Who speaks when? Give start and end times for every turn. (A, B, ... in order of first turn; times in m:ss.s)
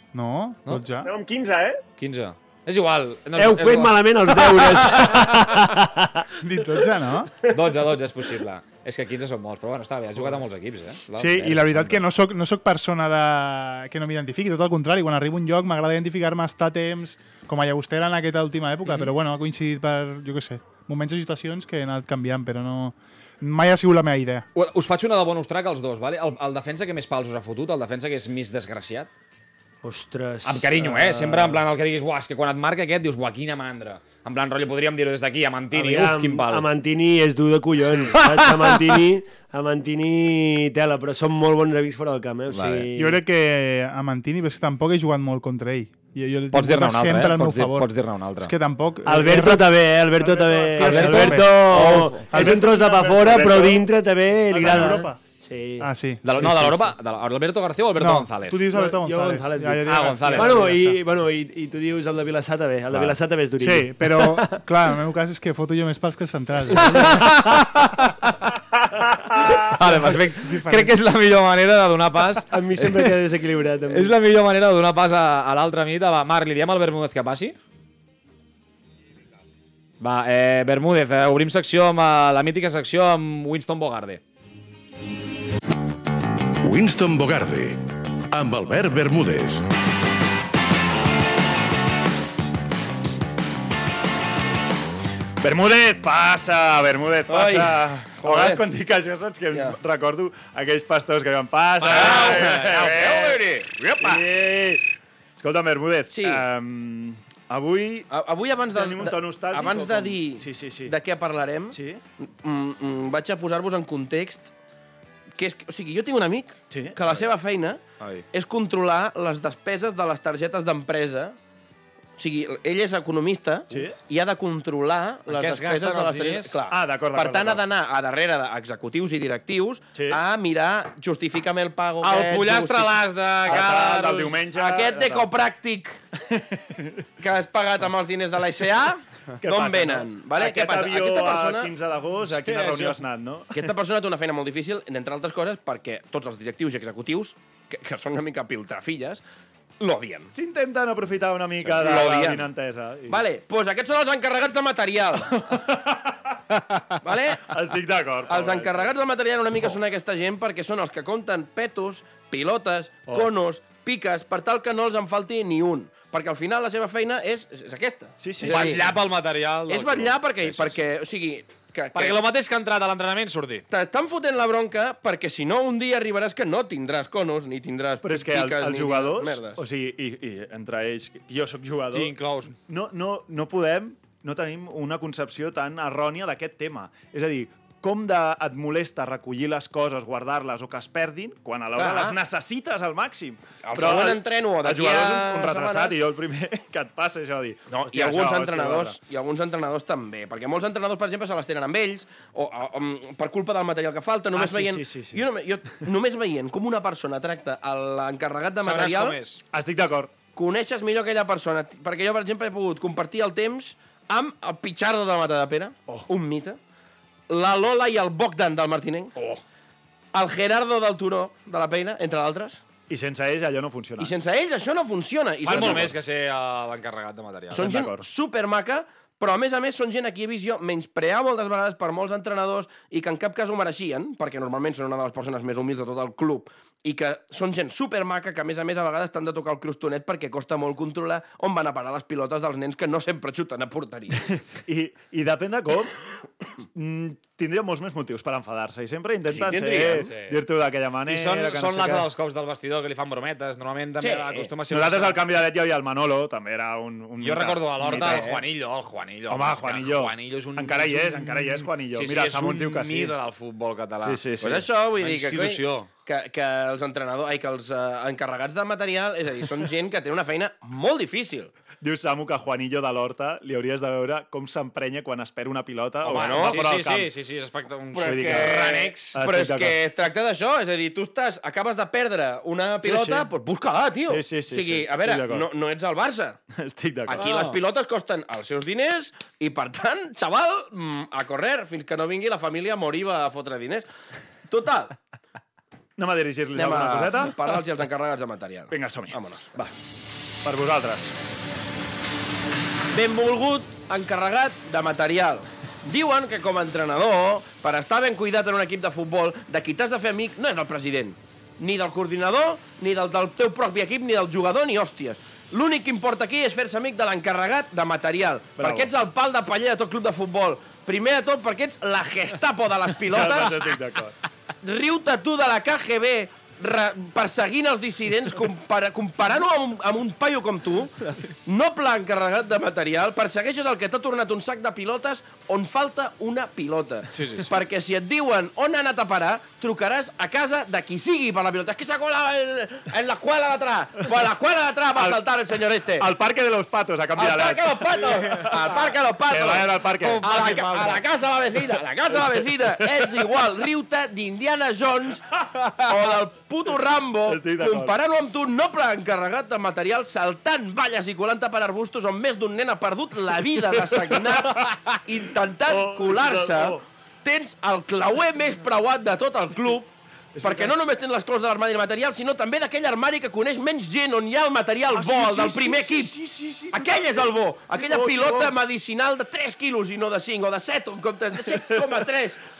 0:00.1-0:01.1 A
0:01.0-0:01.8 B
0:02.0-0:05.6 C
0:03.3-0:06.3 D
0:06.4-0:07.3 A
0:07.5-0:12.0 C
0:11.2-0:24.5 A
0:24.6-0:29.1 C
0:29.8-0:31.6 D
0:30.4-0:36.7 C
0:35.7-0:43.2 D
0:42.5-0:42.9 C
0:43.0-0:53.5 A
0:46.5-0:48.5 C
0:49.0-0:56.8 D
0:50.8-0:52.4 C
0:52.4-0:53.9 B
0:54.5-0:55.2 A
0:55.8-0:56.7 A
0:56.2-0:58.6 C
0:58.0-1:01.0 A
0:58.7-1:04.6 D
0:59.8-1:00.7 C
1:02.9-1:03.2 C
1:03.6-1:07.3 A
1:06.8-1:07.3 D
1:06.9-1:08.5 C
1:08.9-1:09.7 B
1:09.4-1:13.2 C
1:09.6-1:11.0 A
1:12.5-1:14.2 D
1:13.9-1:17.6 C
1:20.0-1:24.2 C
1:26.6-1:27.8 E
1:28.3-1:29.6 E
1:35.4-1:44.8 F
1:37.3-1:38.6 G
1:39.5-1:39.8 G
1:41.8-1:44.2 G
1:45.4-1:48.1 F
1:46.1-1:46.5 G
1:48.1-1:48.7 C
1:48.1-1:54.5 G
1:48.7-1:51.0 F
1:51.7-1:52.0 F
1:55.4-1:57.8 G
1:56.7-1:57.2 F
1:58.0-1:58.2 C
1:58.3-2:01.4 G
2:02.2-2:13.0 G
2:03.7-2:04.0 F
2:05.3-2:06.6 C
2:06.7-2:07.6 F
2:09.9-2:10.2 F
2:12.0-2:14.3 C
2:13.5-2:15.3 F
2:14.5-2:16.0 G
2:16.3-2:16.9 F
2:17.2-2:21.8 G
2:19.4-2:23.7 F
2:22.5-2:22.9 C
2:22.5-2:22.8 G
2:23.5-2:29.2 G
2:29.8-2:30.3 G
2:30.3-2:33.2 F
2:31.8-2:32.5 G
2:33.1-2:35.3 G
2:35.2-2:36.1 F
2:37.0-2:37.5 G
2:37.4-2:39.0 F
2:38.2-2:48.8 G
2:43.0-2:43.3 F
2:48.2-2:49.0 F
2:48.4-2:50.8 C
2:49.7-2:52.2 G
2:51.9-2:53.6 C
2:53.7-2:59.6 G
2:58.0-3:02.1 F
3:01.9-3:02.5 C
3:02.7-3:19.0 F
3:11.8-3:12.2 G
3:13.6-3:16.0 G
3:17.7-3:29.2 G
3:24.3-3:25.8 F
3:28.6-3:29.4 C
3:29.5-3:30.2 F
3:30.3-3:36.6 G
3:35.9-3:36.1 F
3:37.3-3:39.1 G
3:39.2-3:39.4 C
3:40.1-3:42.6 G
3:42.9-3:44.2 F
3:44.0-3:45.9 G
3:45.4-3:47.7 C
3:45.5-3:45.9 F
3:47.5-4:04.2 G
3:47.6-3:48.1 F
4:04.7-4:05.9 F
4:06.6-4:12.1 F
4:09.3-4:10.1 G
4:10.0-4:10.3 C
4:11.1-4:15.2 C
4:14.0-4:14.5 G
4:14.7-4:18.4 F
4:17.2-4:25.9 C
4:18.0-4:18.3 G
4:19.3-4:23.2 F
4:24.0-4:24.6 F
4:24.4-4:31.5 G
4:31.8-4:37.1 F
4:36.0-4:36.6 G
4:36.0-4:39.1 C
4:37.9-4:46.4 G
4:37.9-4:39.8 F
4:42.8-4:43.3 F
4:44.1-4:45.5 F
4:46.6-4:47.4 F
4:47.1-4:53.9 G
4:47.2-4:47.6 C
4:54.5-4:55.0 G
4:56.0-4:57.6 F
4:56.5-4:59.5 G
4:58.7-4:59.7 F
5:00.4-5:01.2 F
5:02.9-5:23.8 G
5:18.6-5:18.9 F
5:23.0-5:24.1 F
5:24.6-5:46.1 G
5:37.1-5:37.5 C
5:44.9-5:53.4 F
5:47.1-5:55.2 G
5:55.7-5:56.2 F
5:55.9-6:16.2 G
5:57.2-5:58.0 F
6:03.7-6:05.0 F
6:05.7-6:06.8 F
6:10.4-6:10.8 F
6:14.9-6:18.5 F
6:16.7-6:22.4 G
6:21.5-6:21.8 F